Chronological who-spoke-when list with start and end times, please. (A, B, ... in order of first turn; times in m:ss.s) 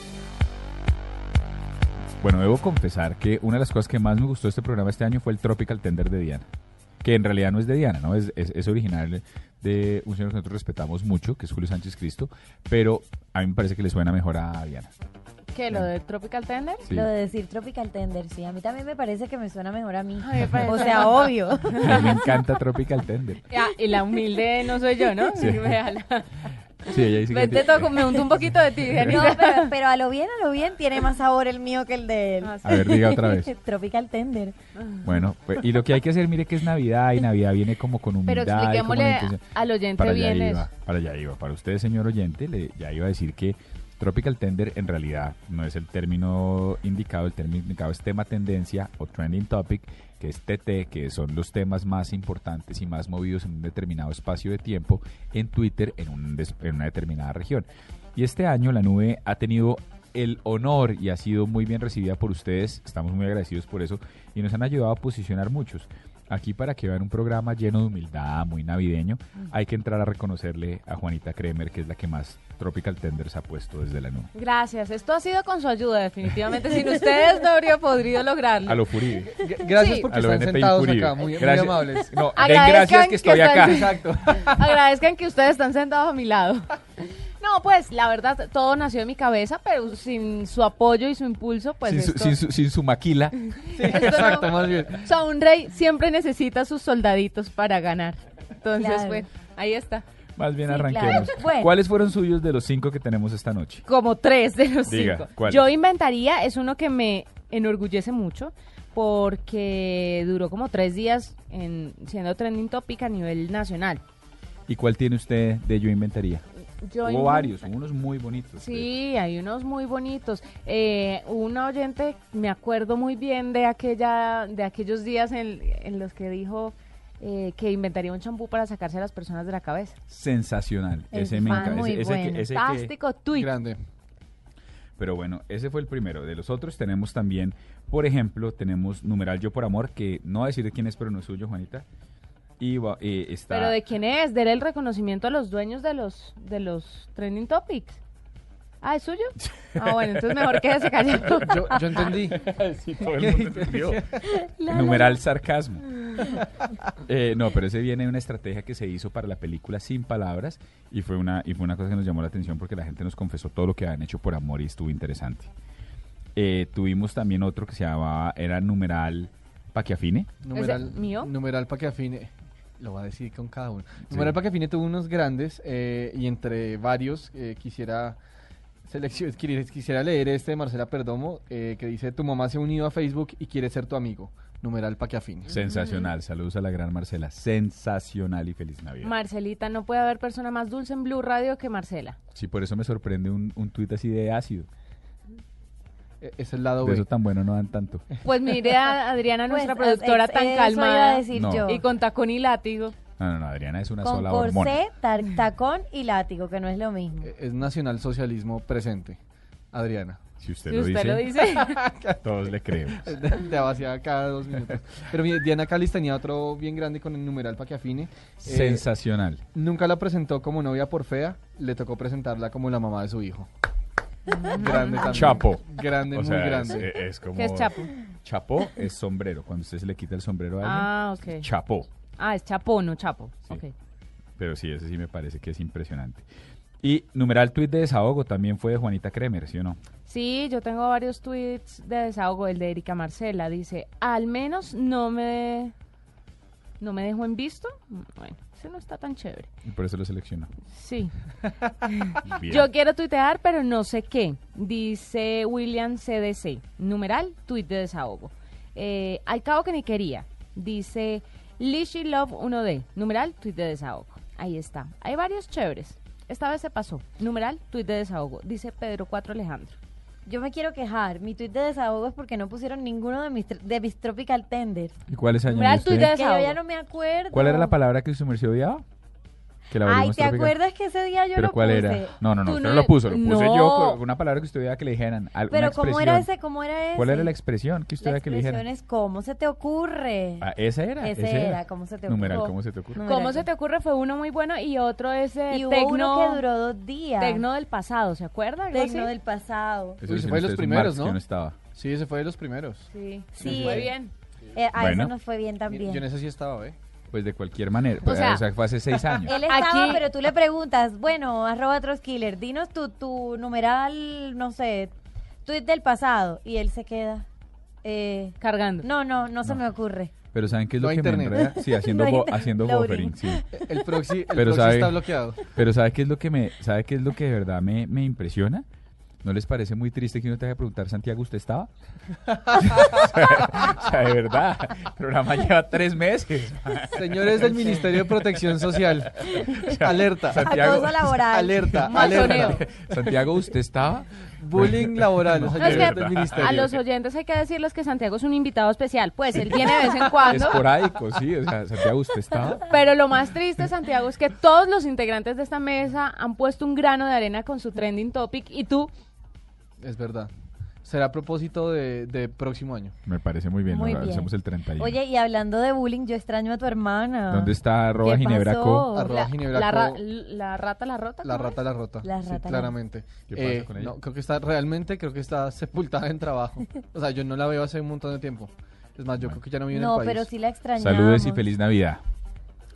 0:02.2-0:06.5 A
0:07.0-0:14.9 A
0:15.5-0:16.8 B
0:16.8-0:17.1 A
0:16.9-0:22.4 C
0:20.2-0:22.1 B
0:21.8-0:23.5 A
0:23.5-0:29.7 B
0:25.4-0:25.7 A
0:26.8-0:28.1 A
0:29.1-0:34.6 C
0:32.4-0:32.8 B
0:32.6-0:33.5 A
0:34.8-0:35.2 B
0:35.0-1:14.3 A
0:38.3-0:40.7 B
1:14.3-1:18.8 B
1:18.6-1:19.5 A
1:19.2-1:22.2 D
1:19.7-1:20.1 B
1:20.1-1:24.0 A
1:22.3-1:32.4 B
1:23.6-1:24.6 D
1:31.8-1:33.4 A
1:33.6-1:40.0 B
1:33.7-1:35.0 D
1:38.8-1:39.2 C
1:40.4-1:43.8 A
1:40.7-1:41.7 C
1:43.8-1:54.0 B
1:44.9-1:45.7 A
1:54.7-1:56.4 A
1:56.8-1:57.6 B
1:57.0-1:58.9 A
1:58.6-2:10.0 B
2:10.1-2:12.9 A
2:11.1-2:12.5 C
2:11.4-2:12.0 B
2:12.5-2:13.5 B
2:13.3-2:13.8 D
2:15.0-2:21.9 A
2:22.6-2:23.8 A
2:23.5-2:28.0 B
2:28.8-2:32.1 B
2:29.8-2:30.3 A
2:31.5-2:32.4 D
2:32.3-2:34.0 A
2:33.2-2:34.3 D
2:34.2-2:35.2 C
2:34.7-2:36.0 A
2:37.0-2:45.5 A
2:46.4-2:50.4 A
2:50.4-2:58.2 D
2:50.5-2:51.3 B
2:54.1-2:54.4 A
2:58.9-3:05.6 D
3:05.5-3:09.1 A
3:05.7-3:06.1 B
3:09.0-3:12.2 B
3:12.4-3:14.7 A
3:16.2-3:17.1 D
3:16.8-3:18.0 A
3:18.2-3:23.0 B
3:19.5-3:21.8 C
3:21.3-3:21.7 A
3:23.2-3:24.8 A
3:24.0-3:27.3 C
3:27.2-3:29.2 D
3:29.7-3:30.2 D
3:30.4-3:31.3 A
3:30.7-3:31.8 B
3:31.5-3:32.2 D
3:32.2-3:33.2 A
3:32.8-3:38.9 D
3:38.4-3:39.4 A
3:39.6-3:43.5 D
3:44.3-3:45.3 B
3:44.5-3:46.9 D
3:45.1-3:51.9 A
3:47.4-3:47.9 B
3:50.6-3:51.5 B
3:52.2-3:53.7 B
3:54.4-3:56.3 A
3:56.8-3:59.8 A
4:00.1-4:05.7 B
4:06.8-4:09.5 B
4:09.6-4:10.5 A
4:10.7-4:11.1 B
4:11.7-4:29.8 B
4:12.2-4:12.7 A
4:30.3-4:35.0 C
4:35.1-4:36.2 A
4:35.5-4:36.6 B
4:36.0-4:37.7 C
4:37.3-4:38.8 A
4:39.7-4:40.6 A
4:39.8-4:42.2 C
4:41.4-4:46.3 A
4:42.4-4:44.0 B
4:45.5-4:47.4 C
4:47.0-4:48.7 A
4:48.0-4:50.5 C
4:50.4-4:53.0 A
4:51.0-4:53.5 C
4:52.3-4:56.4 B
4:55.5-4:57.4 C
4:57.2-4:59.1 B
4:58.7-5:00.0 C
5:00.0-5:01.6 A
5:00.1-5:01.2 D
5:01.7-5:03.9 D
5:02.9-5:04.1 B
5:03.3-5:03.9 C
5:04.5-5:06.0 C
5:04.8-5:05.2 A
5:05.7-5:06.8 D
5:07.1-5:09.4 A
5:08.0-5:08.4 B
5:09.2-5:14.9 C
5:09.3-5:10.0 B
5:15.4-5:17.3 C
5:17.8-5:20.1 C
5:18.4-5:18.9 B
5:20.3-5:23.4 A
5:20.8-5:21.5 D
5:21.4-5:24.0 C
5:23.5-5:25.5 D
5:24.3-5:28.6 A
5:29.2-5:31.7 A
5:32.5-5:41.8 A
5:36.9-5:39.2 D
5:39.5-5:39.7 C
5:39.7-5:40.6 D
5:40.3-5:42.6 C
5:41.2-5:42.5 D
5:41.9-5:42.6 B
5:42.3-5:46.4 A
5:44.4-5:46.8 D
5:45.6-5:50.7 B
5:50.3-5:52.6 A
5:52.6-5:58.9 B
5:59.8-6:00.3 D
6:00.8-6:03.0 D
6:03.0-6:05.0 A
6:03.7-6:09.3 C
6:07.3-6:08.9 A
6:08.9-6:10.0 D
6:09.0-6:11.6 B
6:11.2-6:20.3 D
6:12.0-6:12.8 C
6:13.3-6:14.0 A
6:19.7-6:21.5 C
6:20.8-6:22.0 A